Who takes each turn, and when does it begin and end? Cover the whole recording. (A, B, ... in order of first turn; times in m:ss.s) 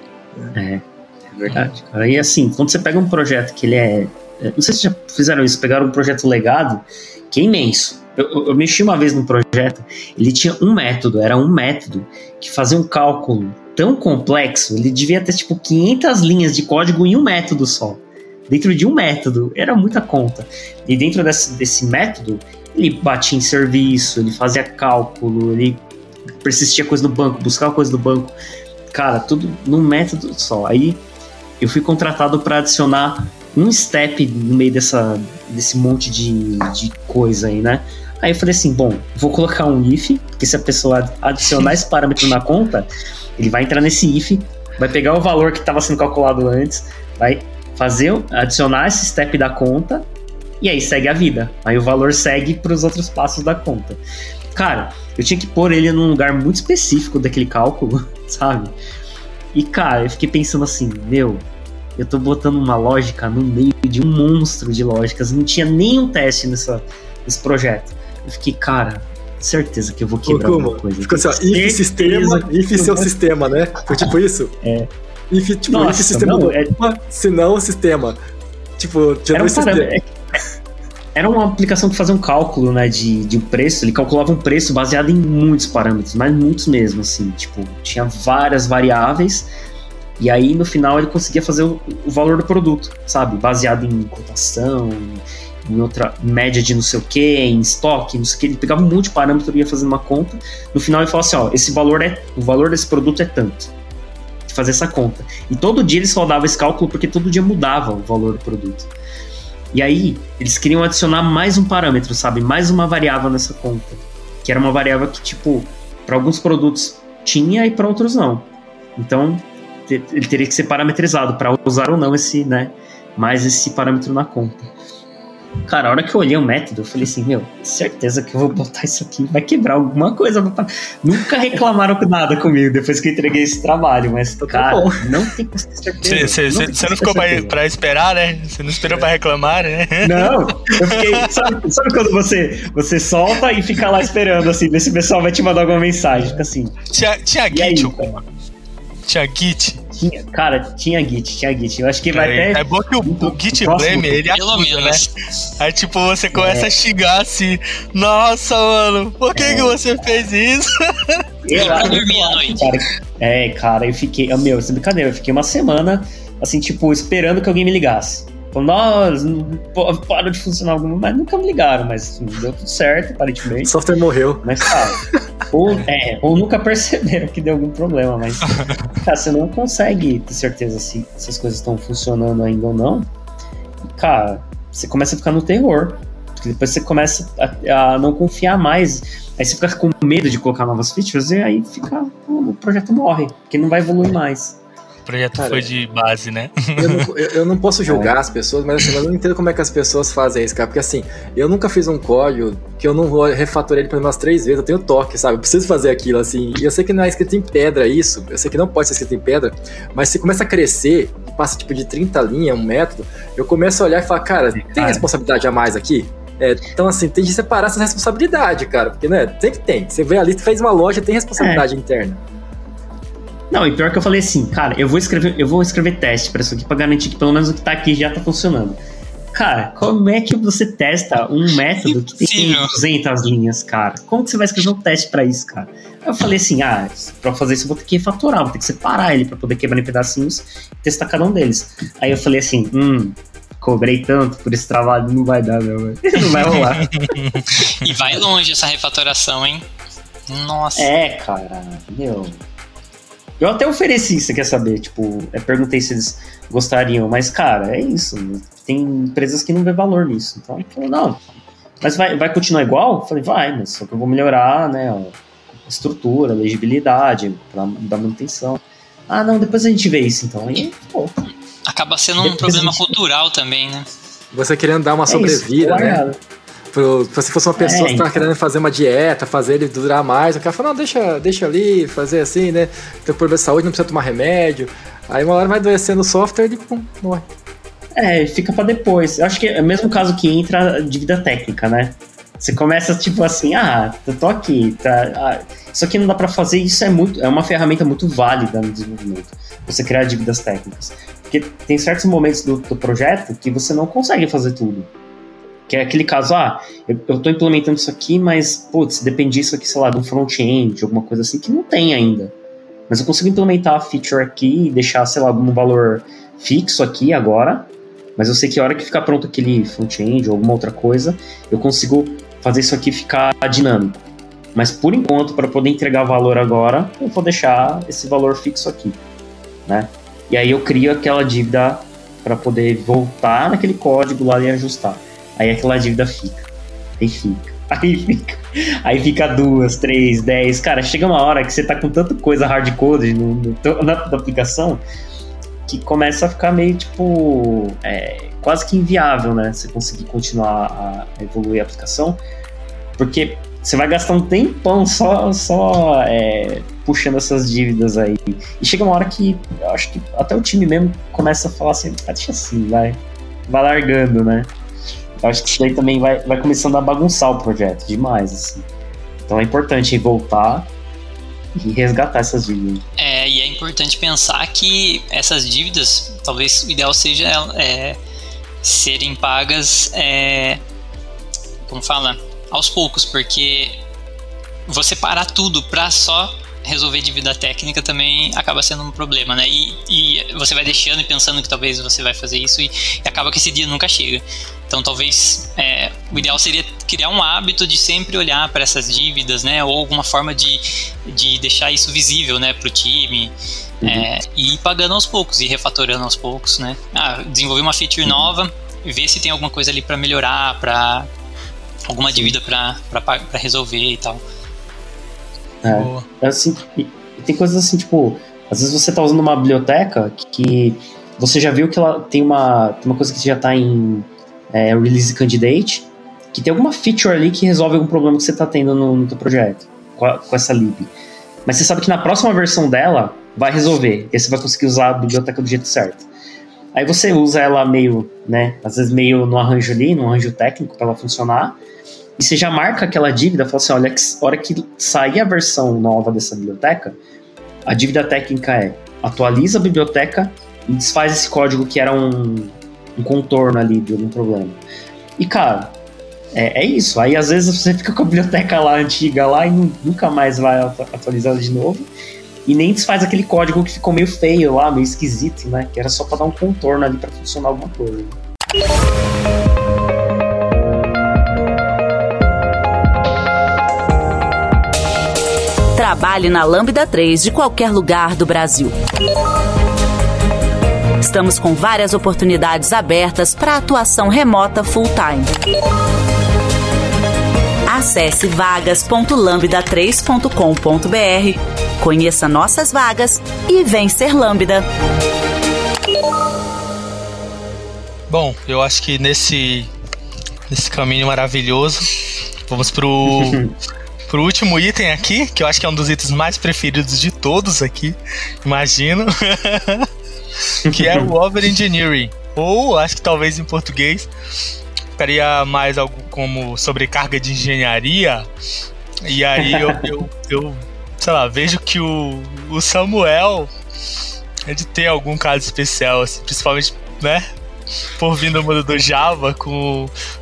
0:00.5-0:25.8 A
0:26.4-0:28.4 A
0:28.9-0:31.0 A
0:31.6-0:50.1 A
0:50.6-0:54.0 A
0:54.5-0:58.8 A
0:59.5-1:01.4 A
1:02.0-1:13.1 A
1:10.3-1:14.6 B
1:13.9-1:14.9 A
1:15.3-1:18.2 B
1:15.7-1:16.8 A
1:18.8-1:19.9 B
1:19.3-1:20.1 A
1:21.2-1:29.5 A
1:30.2-1:43.7 A
1:44.5-1:48.9 A
1:49.7-2:04.7 A
2:05.6-2:17.6 A
2:14.4-2:15.1 B
2:16.0-2:21.2 C
2:20.0-2:26.8 A
2:26.9-2:28.2 C
2:27.5-2:28.2 A
2:29.1-2:29.8 C
2:29.9-2:34.2 A
2:32.1-2:35.1 C
2:34.3-2:35.1 D
2:35.6-2:42.0 C
2:36.4-2:36.7 A
2:39.4-2:39.8 A
2:41.4-2:53.8 A
2:41.5-2:42.7 D
2:53.6-2:54.8 B
2:54.4-3:03.1 A
2:58.5-2:58.9 C
3:04.0-3:14.6 A
3:15.1-3:17.0 C
3:15.4-3:15.7 B
3:16.8-3:42.2 B
3:17.9-3:18.1 A
3:34.6-3:35.1 A
3:41.4-3:41.6 A
3:43.5-3:48.8 A
3:49.3-4:07.0 A
3:52.2-3:52.8 D
4:06.4-4:08.2 C
4:07.6-4:09.7 D
4:10.3-4:10.9 D
4:10.8-4:12.4 A
4:13.4-4:21.2 A
4:21.8-4:31.1 A
4:31.7-4:33.9 D
4:32.2-4:33.0 A
4:34.3-4:36.0 B
4:35.1-4:36.2 A
4:36.7-4:47.3 B
4:37.6-4:38.3 A
4:48.0-5:04.9 A
5:05.7-5:12.3 A
5:12.9-5:24.0 A
5:24.6-5:29.0 A
5:29.7-5:36.5 A
5:37.0-5:44.8 A
5:45.7-5:52.2 A
5:53.0-6:04.5 A
6:05.2-6:08.6 A
6:09.3-6:10.7 A
6:11.6-6:12.8 A
6:13.0-6:18.0 D
6:18.6-6:20.6 D
6:21.6-6:23.8 D
6:24.7-6:51.1 D
6:43.8-6:44.1 A
6:48.0-6:48.3 A
6:51.9-6:54.2 D
6:52.1-6:52.4 A
6:55.6-7:10.9 A
6:55.7-6:56.1 C
7:11.5-7:16.1 A
7:16.7-7:21.6 A
7:22.2-7:27.0 A
7:27.7-7:34.6 A
7:35.2-7:35.8 A
7:36.3-7:41.9 A
7:42.5-7:48.2 A
7:55.8-7:58.8 E
8:01.0-8:05.3 E
8:07.7-8:14.6 E
8:18.1-8:19.7 C
8:20.5-8:22.0 C
8:22.5-8:23.4 C
8:23.1-8:23.5 A
8:24.1-8:29.9 C
8:30.6-8:34.1 C
8:30.6-8:31.1 A
8:35.0-8:38.3 C
8:39.0-8:43.5 C
8:39.4-8:39.9 A
8:44.5-8:47.3 C
8:48.0-8:49.9 C